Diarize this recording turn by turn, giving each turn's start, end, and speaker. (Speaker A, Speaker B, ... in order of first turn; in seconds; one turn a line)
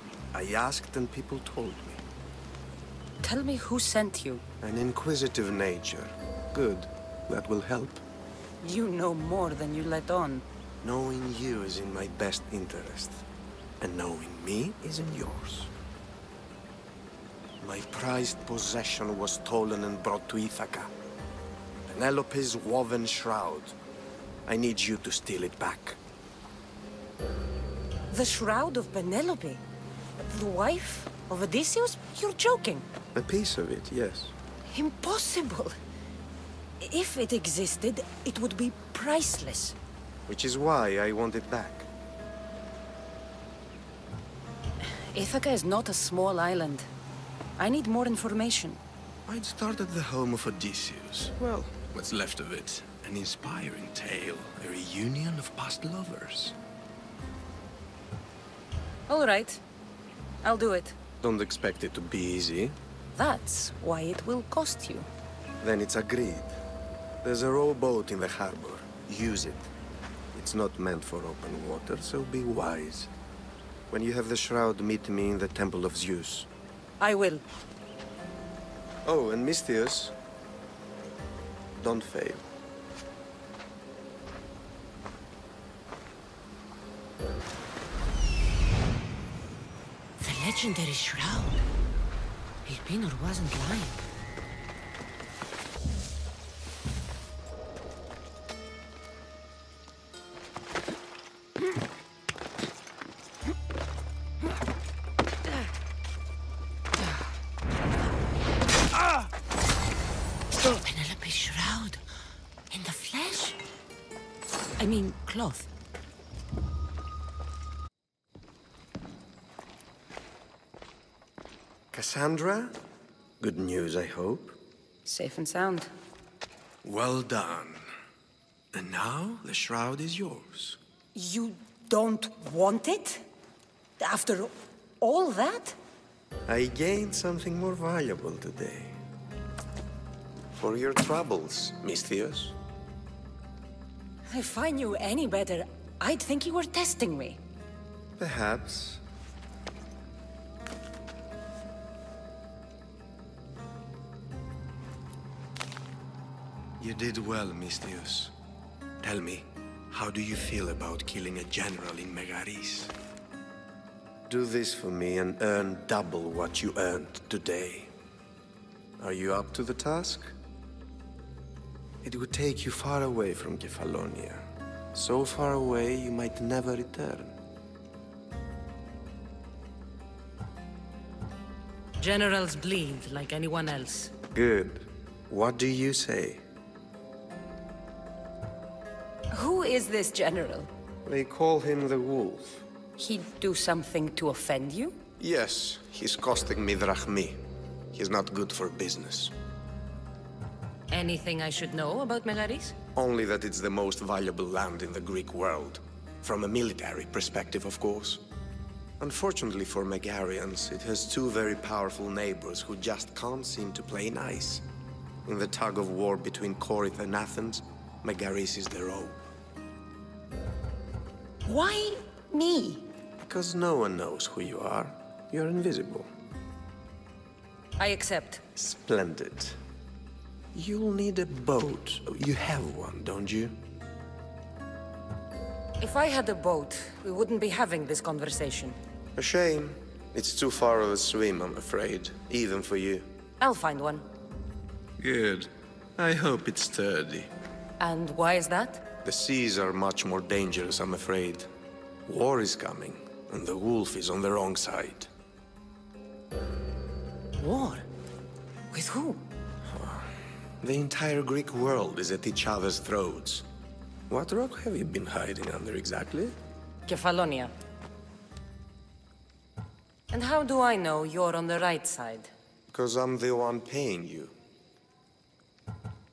Speaker A: 0.3-2.0
Speaker B: 3.2-4.4
Speaker A: 4.6-8.0
Speaker B: 8.6-10.4
Speaker A: 10.8-13.2
Speaker A: 13.8-15.7
Speaker A: 17.6-20.9
Speaker A: 21.9-23.8
Speaker A: 24.5-26.0
Speaker B: 28.1-29.6
Speaker B: 30.2-32.9
Speaker A: 33.1-34.3
Speaker B: 34.7-35.8
Speaker B: 36.8-39.8
Speaker A: 40.3-41.9
Speaker B: 45.0-46.9
Speaker B: 47.6-48.8
Speaker A: 49.3-56.6
Speaker B: 59.1-59.6
Speaker B: 60.4-60.9
Speaker A: 61.2-62.8
Speaker B: 63.2-65.1
Speaker A: 65.6-66.6
Speaker A: 67.2-69.7
Speaker A: 70.3-73.1
Speaker A: 73.9-76.5
Speaker B: 77.0-77.4
Speaker A: 79.0-80.1
Speaker A: 81.8-82.5
Speaker B: 90.2-91.6
Speaker B: 92.7-94.0
Speaker B: 110.6-112.0
Speaker B: 112.7-113.6
Speaker B: 114.8-115.7
Speaker A: 121.9-122.8
Speaker A: 123.4-124.6
Speaker B: 125.1-125.9
Speaker A: 126.8-127.9
Speaker A: 128.7-130.8
Speaker B: 131.2-133.2
Speaker B: 134.0-135.8
Speaker A: 136.5-139.0
Speaker A: 140.6-142.6
Speaker B: 144.3-147.4
Speaker A: 148.2-149.0
Speaker A: 156.8-158.3
Speaker A: 159.0-162.9
Speaker A: 164.3-167.9
Speaker A: 169.0-170.3
Speaker A: 172.0-177.4
Speaker B: 182.0-184.1
Speaker A: 184.3-186.4
Speaker B: 189.3-190.7
Speaker A: 191.1-192.6
Speaker B: 193.0-195.0
Speaker A: 195.2-197.4
Speaker A: 197.9-199.3
Speaker B: 200.9-202.8
Speaker A: 203.0-208.2
Speaker A: 209.0-214.6
Speaker A: 215.2-219.2
Speaker B: 221.5-222.9
Speaker A: 223.2-226.1
Speaker B: 227.8-228.4
Speaker A: 228.6-229.6
Speaker A: 230.5-233.6
Speaker B: 235.8-238.8
Speaker A: 239.2-243.2
Speaker B: 243.4-244.1
Speaker A: 245.0-247.3
Speaker B: 247.8-248.8
Speaker A: 249.0-251.5
Speaker A: 252.1-255.1
Speaker B: 257.4-257.9
Speaker B: 258.7-259.2
Speaker A: 259.7-260.1
Speaker A: 260.6-263.5
Speaker A: 264.1-266.4
Speaker B: 266.9-267.5
Speaker B: 270.1-272.3
Speaker A: 272.7-274.4